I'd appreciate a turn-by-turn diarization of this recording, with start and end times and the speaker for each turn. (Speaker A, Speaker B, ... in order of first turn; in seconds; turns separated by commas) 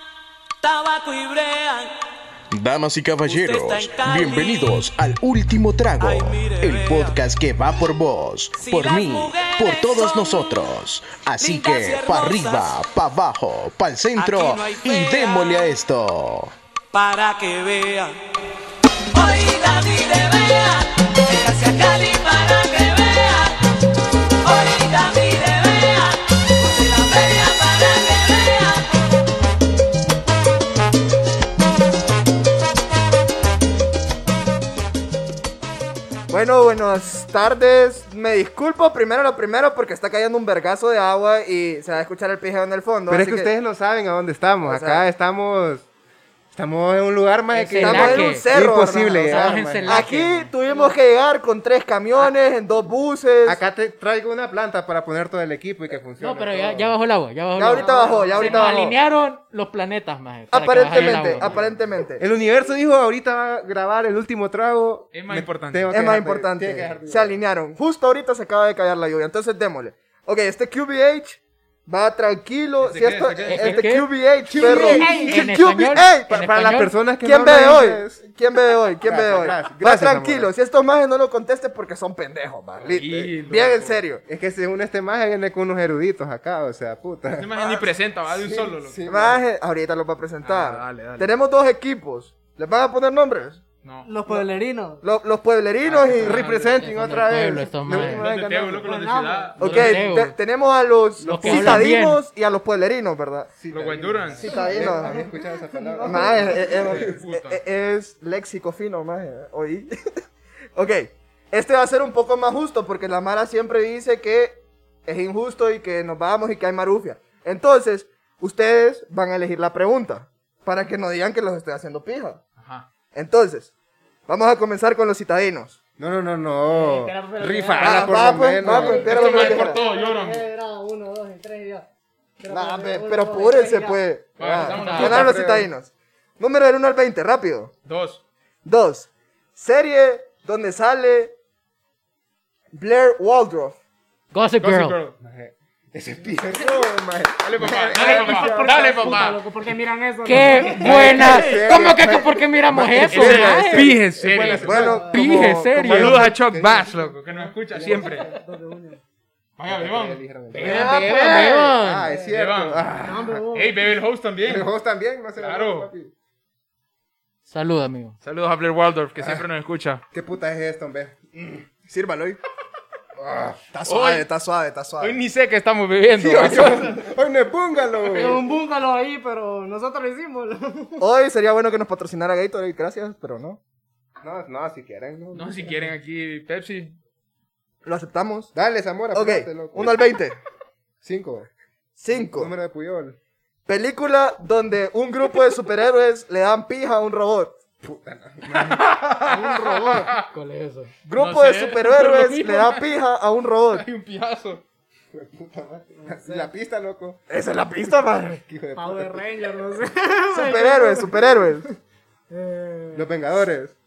Speaker A: 0.6-1.9, Speaker B: 2.5-16.5, Speaker A: 3.2-4.9, Speaker A: 6.0-7.2, Speaker A: 8.5-10.7, Speaker A: 11.4-12.9, Speaker A: 14.1-15.7, Speaker A: 16.9-18.2, Speaker A: 19.1-23.6, Speaker A: 24.4-29.1, Speaker C: 36.3-43.5, Speaker D: 43.1-45.9, Speaker C: 44.6-45.0, Speaker D: 46.5-50.0, Speaker E: 47.5-48.5, Speaker C: 47.8-53.6, Speaker E: 49.2-50.5, Speaker F: 50.6-50.9, Speaker D: 53.4-56.9, Speaker E: 56.2-61.5, Speaker C: 57.5-59.0, Speaker F: 57.7-58.7, Speaker C: 60.5-62.2, Speaker G: 61.0-61.7, Speaker D: 62.2-67.4, Speaker G: 65.1-65.9, Speaker C: 65.9-76.5, Speaker G: 72.8-73.8, Speaker E: 73.5-76.9, Speaker D: 74.5-75.4, Speaker F: 74.6-75.4, Speaker D: 76.3-78.2, Speaker C: 77.2-84.2, Speaker D: 79.0-80.5, Speaker G: 82.9-84.0, Speaker D: 84.2-87.6, Speaker G: 87.3-89.1, Speaker C: 87.6-87.9, Speaker D: 88.3-89.4, Speaker C: 89.1-93.6, Speaker G: 90.4-91.3, Speaker G: 93.8-94.1, Speaker F: 94.0-95.0, Speaker C: 95.0-96.5, Speaker G: 95.8-96.8, Speaker D: 96.1-98.3, Speaker E: 96.3-98.3, Speaker G: 97.9-100.0, Speaker C: 98.1-98.8, Speaker F: 98.6-99.6, Speaker C: 99.6-103.5, Speaker E: 99.6-100.3, Speaker E: 101.2-102.2, Speaker D: 101.3-101.9, Speaker D: 103.6-107.2, Speaker G: 103.7-104.6, Speaker C: 104.4-105.2, Speaker F: 104.5-106.7, Speaker C: 106.0-109.9, Speaker G: 106.7-107.6, Speaker C: 110.8-122.4, Speaker G: 122.6-122.9, Speaker C: 123.1-123.7, Speaker C: 124.3-125.8, Speaker D: 126.0-129.2, Speaker F: 126.7-131.9, Speaker C: 127.8-129.8, Speaker G: 128.7-130.5, Speaker F: 132.4-134.0, Speaker C: 132.5-137.7, Speaker G: 134.4-135.4, Speaker E: 134.7-135.4, Speaker D: 134.9-135.7, Speaker G: 137.8-138.2, Speaker C: 138.6-141.3, Speaker C: 142.7-143.8, Speaker E: 144.3-145.0, Speaker G: 144.6-145.2, Speaker D: 145.2-148.9, Speaker G: 147.4-149.4, Speaker F: 147.9-151.3, Speaker E: 150.2-154.0, Speaker G: 150.6-151.7, Speaker D: 150.8-155.0, Speaker G: 153.0-155.0, Speaker C: 154.2-156.3, Speaker F: 154.7-155.5, Speaker E: 155.0-156.3, Speaker D: 155.7-157.1, Speaker G: 155.8-158.3, Speaker F: 157.3-159.0, Speaker D: 157.7-158.4, Speaker G: 159.6-160.9, Speaker D: 159.7-163.5, Speaker E: 160.5-162.1, Speaker C: 160.7-161.5, Speaker F: 162.0-162.4, Speaker G: 162.3-163.0, Speaker F: 163.0-163.8, Speaker G: 163.5-164.7, Speaker D: 164.4-166.1, Speaker G: 165.4-165.9, Speaker E: 167.5-168.2, Speaker G: 168.2-170.0, Speaker D: 169.2-169.4, Speaker D: 170.1-171.6, Speaker C: 171.9-172.4, Speaker D: 173.2-173.6, Speaker C: 173.7-175.2, Speaker G: 173.8-174.2, Speaker G: 175.0-177.0, Speaker D: 176.1-178.5, Speaker F: 178.1-181.0, Speaker C: 181.0-183.6, Speaker D: 184.2-185.8, Speaker G: 185.3-186.9, Speaker C: 187.8-188.5, Speaker D: 188.5-190.0, Speaker C: 189.1-190.4, Speaker D: 191.0-191.5, Speaker C: 192.0-192.5, Speaker D: 192.1-193.2, Speaker C: 193.7-197.6, Speaker D: 197.8-198.9, Speaker G: 198.5-200.2, Speaker F: 199.2-200.1, Speaker E: 200.0-202.9, Speaker C: 201.0-203.8, Speaker G: 203.7-204.6, Speaker D: 205.1-207.2, Speaker F: 206.0-206.5, Speaker C: 207.3-208.4, Speaker D: 208.4-209.2, Speaker F: 208.7-211.7, Speaker C: 210.3-211.7, Speaker F: 212.3-213.1, Speaker D: 212.9-213.8